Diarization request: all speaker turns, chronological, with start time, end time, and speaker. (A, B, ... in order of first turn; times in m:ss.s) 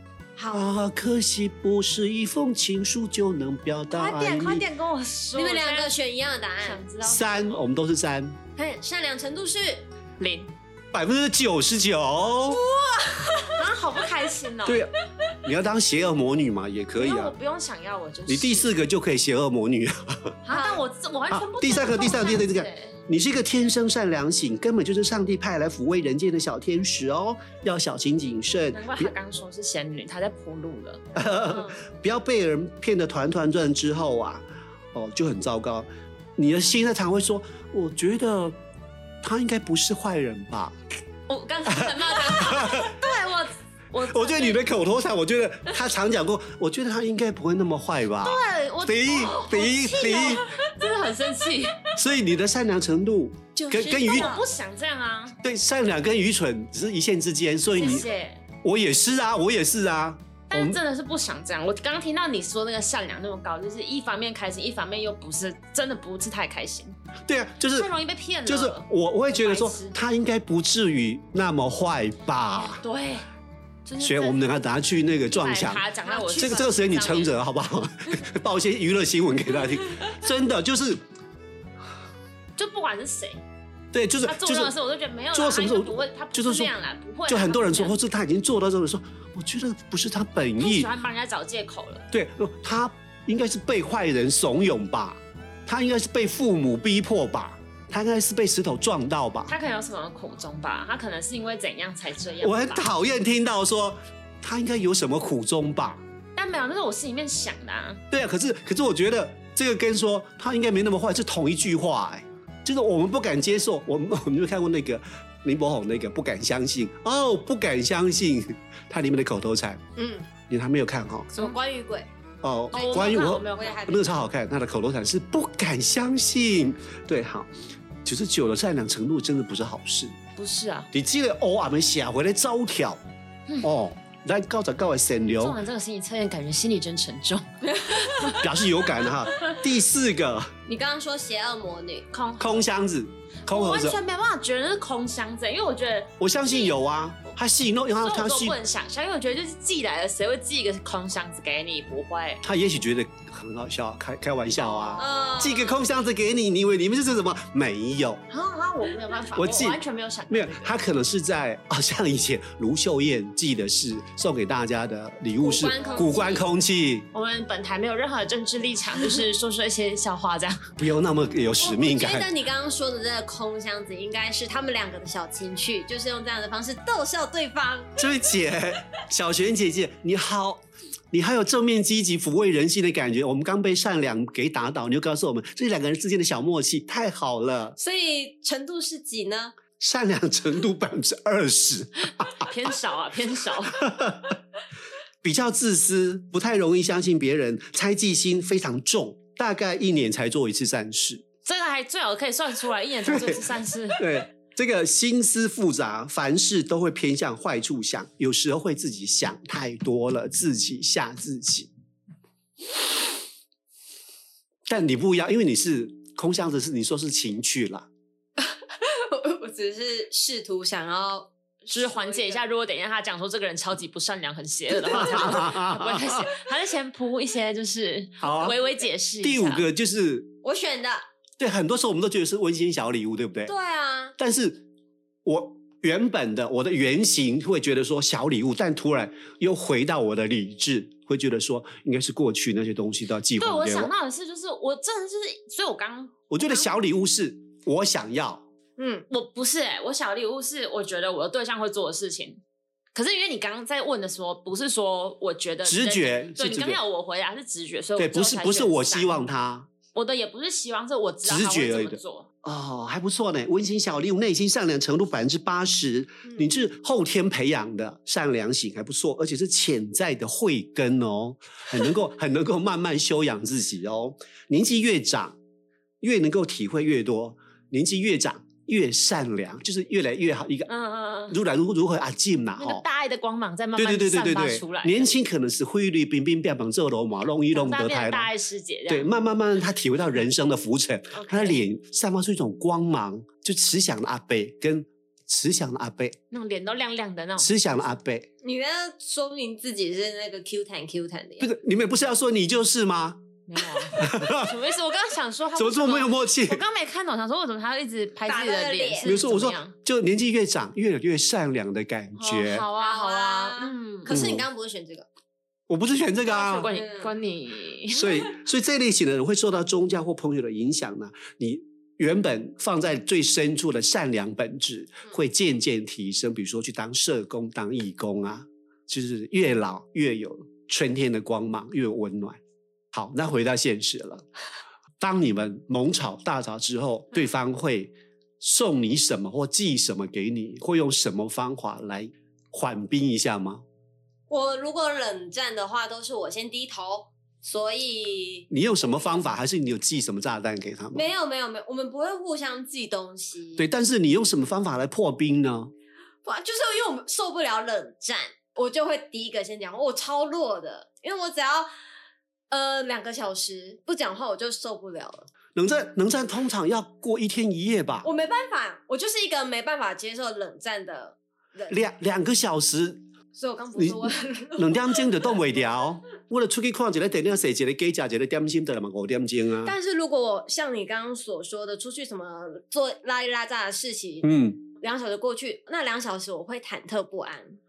0:00.4-0:00.8 A
0:00.5-0:04.7 B
0:03.9-0:05.9 C
0:05.3-0:06.8 A
0:06.6-0:07.6 C
0:07.0-0:08.4 B
0:08.6-0:09.8 A
0:10.2-0:10.5 C
0:10.9-0:12.6 B
0:12.5-0:13.6 A
0:13.5-0:14.9 C
0:14.6-0:14.9 B
0:15.4-0:17.3 B
0:17.0-0:18.7 C
0:18.3-0:20.3 B
0:20.4-0:23.0 C
0:20.5-0:20.8 A
0:21.3-0:29.1 B
0:28.7-0:31.0 C
0:31.1-0:38.6 B
0:31.5-0:31.8 A
0:39.2-0:40.7 B
0:41.3-0:44.6 C
0:41.6-0:43.0 B
0:44.1-0:50.4 B
0:48.2-0:51.8 C
0:52.0-0:54.4 B
0:53.6-0:54.4 A
0:54.0-0:55.4 C
0:55.4-0:58.1 B
0:57.7-0:58.4 C
0:58.6-1:00.8 B
1:00.5-1:06.9 C
1:07.3-1:07.9 B
1:07.7-1:10.0 C
1:08.4-1:12.8 B
1:12.8-1:13.2 C
1:13.8-1:14.4 C
1:14.0-1:21.0 B
1:15.3-1:17.3 C
1:22.6-1:23.4 C
1:23.9-1:24.7 B
1:24.2-1:28.0 C
1:25.3-1:26.7 B
1:27.3-1:30.9 B
1:30.6-1:32.0 C
1:32.1-1:39.5 B
1:39.5-1:42.9 C
1:42.4-1:46.0 B
1:46.3-1:48.0 C
1:48.1-1:59.8 B
2:00.0-2:00.3 A
2:00.5-2:01.3 B
2:01.3-2:02.1 A
2:02.4-2:07.5 B
2:02.7-2:04.0 C
2:02.7-2:04.1 A
2:08.0-2:10.2 B
2:10.4-2:10.9 C
2:10.9-2:13.0 B
2:13.6-2:15.6 B
2:15.4-2:18.4 C
2:17.9-2:18.4 A
2:18.4-2:20.5 B
2:20.7-2:22.1 A
2:22.1-2:22.7 C
2:22.4-2:24.0 B
2:23.5-2:26.8 C
2:26.2-2:28.6 B
2:28.0-2:32.4 C
2:32.4-2:38.2 B
2:34.6-2:35.2 C
2:35.0-2:35.8 A
2:38.3-2:40.8 C
2:39.3-2:47.1 B
2:45.4-2:46.4 A
2:45.7-2:46.4 C
2:47.1-2:50.7 C
2:50.8-2:52.3 B
2:51.6-2:58.0 A
2:58.0-3:07.8 B
3:07.8-3:09.5 A
3:09.8-3:12.5 B
3:12.2-3:13.8 C
3:13.7-3:14.4 B
3:15.2-3:21.2 B
3:21.4-3:24.0 C
3:23.0-3:23.4 B
3:24.0-3:31.7 B
3:34.7-3:37.9 B
3:38.4-3:42.4 A
3:41.7-3:49.6 C
3:44.8-3:46.3 B
3:48.2-3:48.6 B
3:49.2-3:50.3 B
3:50.4-3:51.0 A
3:51.4-3:53.5 B
3:53.5-3:54.1 A
3:54.2-3:54.6 B
3:55.2-4:03.9 B
4:03.4-4:06.8 C
4:06.3-4:08.4 B
4:08.8-4:09.0 A
4:09.1-4:12.4 C
4:12.9-4:19.2 C
4:15.6-4:16.8 B
4:18.0-4:19.7 B
4:19.9-4:22.3 C
4:21.2-4:35.4 B
4:26.2-4:26.5 A
4:36.0-4:40.7 B
4:40.7-4:41.4 C
4:41.3-4:42.8 B
4:42.6-4:45.1 C
4:43.8-4:48.3 B
4:47.5-4:49.1 C
4:48.9-4:56.2 B
4:51.1-4:51.6 C
4:56.3-4:57.5 C
4:57.4-4:58.3 B
4:58.4-5:01.5 A
5:01.4-5:03.2 B
5:03.5-5:09.7 C
5:04.0-5:04.6 B
5:05.6-5:06.6 B
5:08.2-5:09.1 A
5:09.0-5:12.6 B
5:12.2-5:14.2 C
5:12.8-5:15.0 A
5:14.1-5:14.4 B
5:15.7-5:16.7 B
5:16.2-5:18.3 C
5:16.6-5:17.1 A
5:17.9-5:32.4 B
5:32.9-5:34.2 B
5:35.0-5:43.6 B
5:44.3-5:48.5 A
5:48.5-5:51.0 B
5:50.9-5:53.6 A
5:53.6-5:55.7 B
5:56.2-6:01.7 A
6:02.5-6:05.3 A
6:05.6-6:08.1 B
6:08.0-6:11.9 A
6:11.7-6:13.0 B
6:13.3-6:15.3 A
6:13.7-6:14.0 B
6:14.6-6:19.7 B
6:19.6-6:27.6 A
6:24.2-6:24.6 B